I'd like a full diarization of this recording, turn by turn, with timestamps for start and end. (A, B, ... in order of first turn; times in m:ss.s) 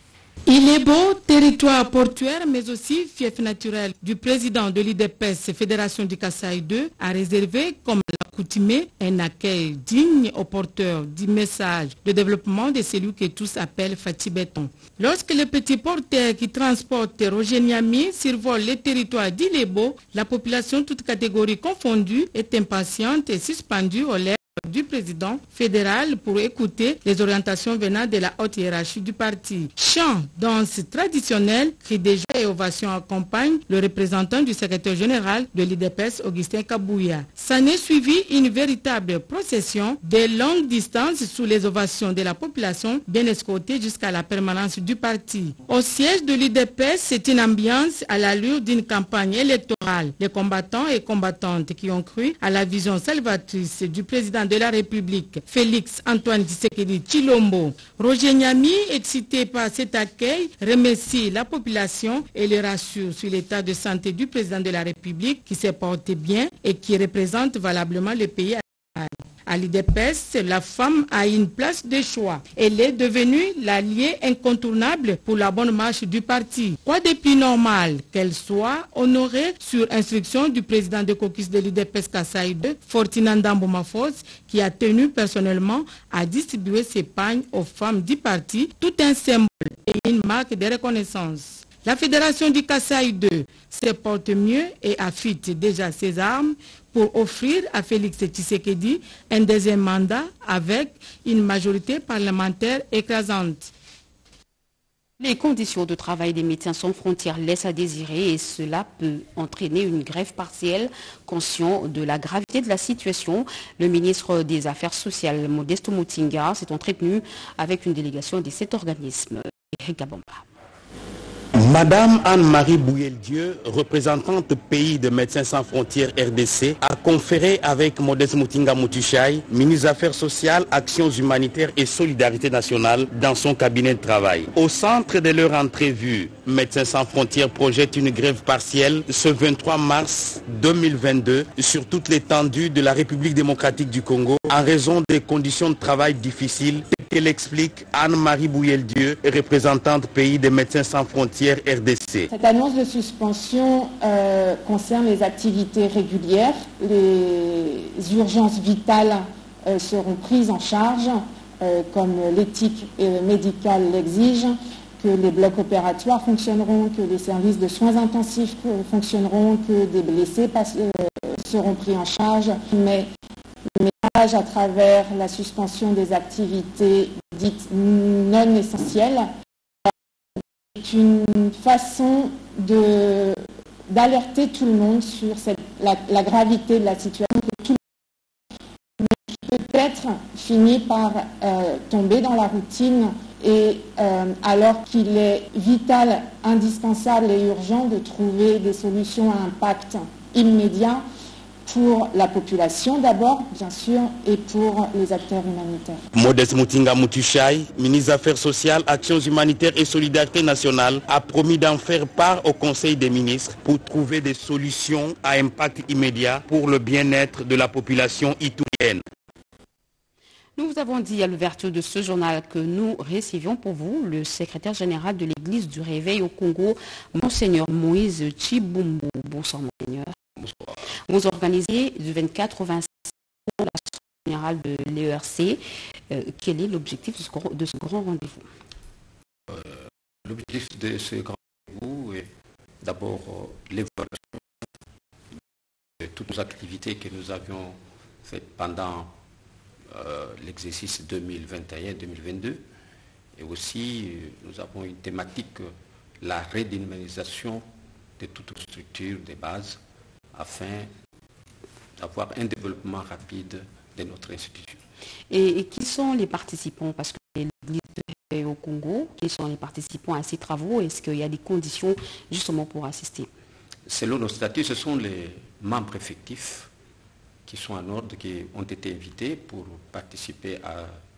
0:00.5-1:43.7 A
1:45.2-2:00.4 B
2:01.6-2:32.3 C
2:32.3-2:53.1 D
2:53.8-2:59.3 D
3:00.8-3:03.4 D
3:03.9-3:07.8 D
3:09.0-3:21.0 D
3:21.7-3:26.0 D
3:26.1-3:39.0 C
3:40.6-3:50.1 B
3:50.4-3:50.8 E
3:51.1-3:55.6 B
3:56.1-3:58.5 B
3:59.5-4:02.3 E
4:02.8-4:04.5 E
4:06.0-4:09.1 E
4:09.9-4:12.6 E
4:13.4-4:17.6 E
4:18.2-4:19.8 E
4:20.4-4:20.9 E
4:22.0-4:24.8 E
4:25.3-4:33.3 B
4:33.9-4:36.7 E
4:37.5-4:41.0 E